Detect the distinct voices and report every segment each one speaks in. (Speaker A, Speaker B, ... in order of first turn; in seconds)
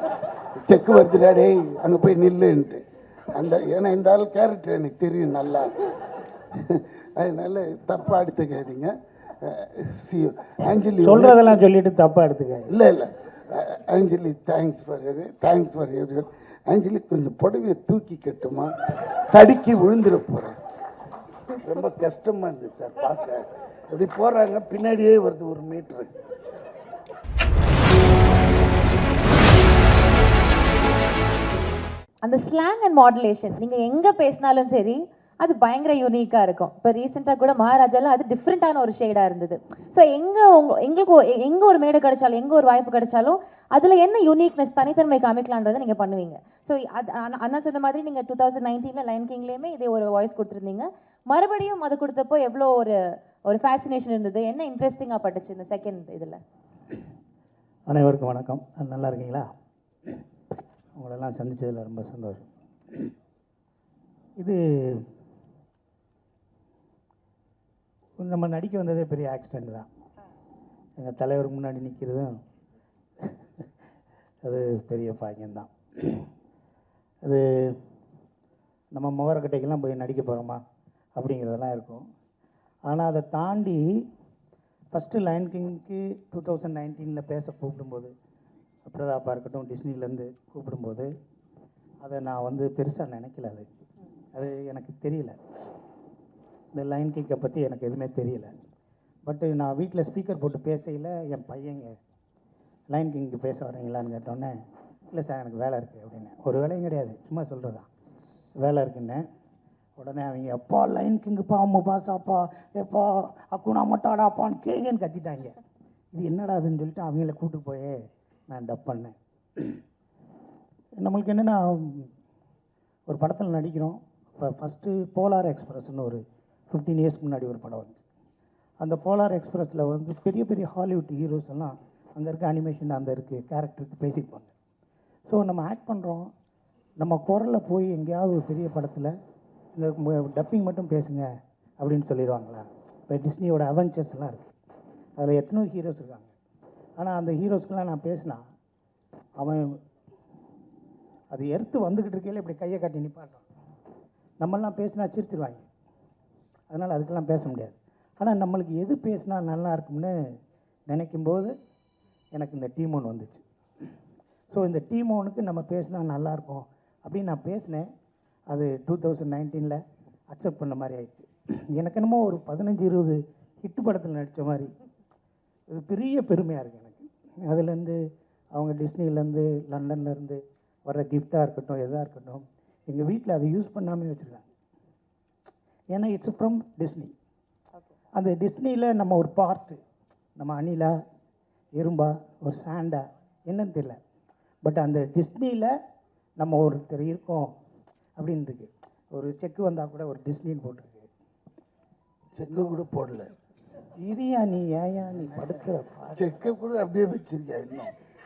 Speaker A: 0.6-5.7, 6.6-11.6, 12.7-18.7, 19.3-20.6, 21.6-26.1, 202.3-203.3, 206.1-207.9
Speaker B: 11.0-12.7, 57.9-59.5, 61.0-62.5, 64.4-65.1, 68.2-69.9, 71.0-72.3, 73.2-73.7, 74.4-76.3, 77.2-77.8, 78.9-80.6, 81.2-82.0, 82.9-84.0, 84.9-88.1, 88.9-91.1, 92.0-93.7, 94.3-95.4, 96.7-98.5, 99.3-102.0, 102.9-104.6, 105.1-107.9, 108.6-109.2, 110.0-115.6, 116.1-118.0, 118.5-119.8, 121.0-122.1, 123.1-128.0, 128.8-134.5, 135.3-136.3, 137.0-139.1, 139.8-141.3, 141.8-144.5, 145.2-146.3, 147.0-148.4, 149.4-149.8, 151.3-153.4, 154.4-155.7, 156.7-160.2, 160.9-161.5, 162.3-163.4, 164.5-167.9, 168.5-174.7, 175.7-178.0, 178.5-184.5, 185.9-187.1, 188.2-189.8, 190.4-190.9, 191.8-194.0, 194.6-195.7, 196.4-197.5, 198.2-201.1, 204.0-206.2
Speaker C: 32.2-56.4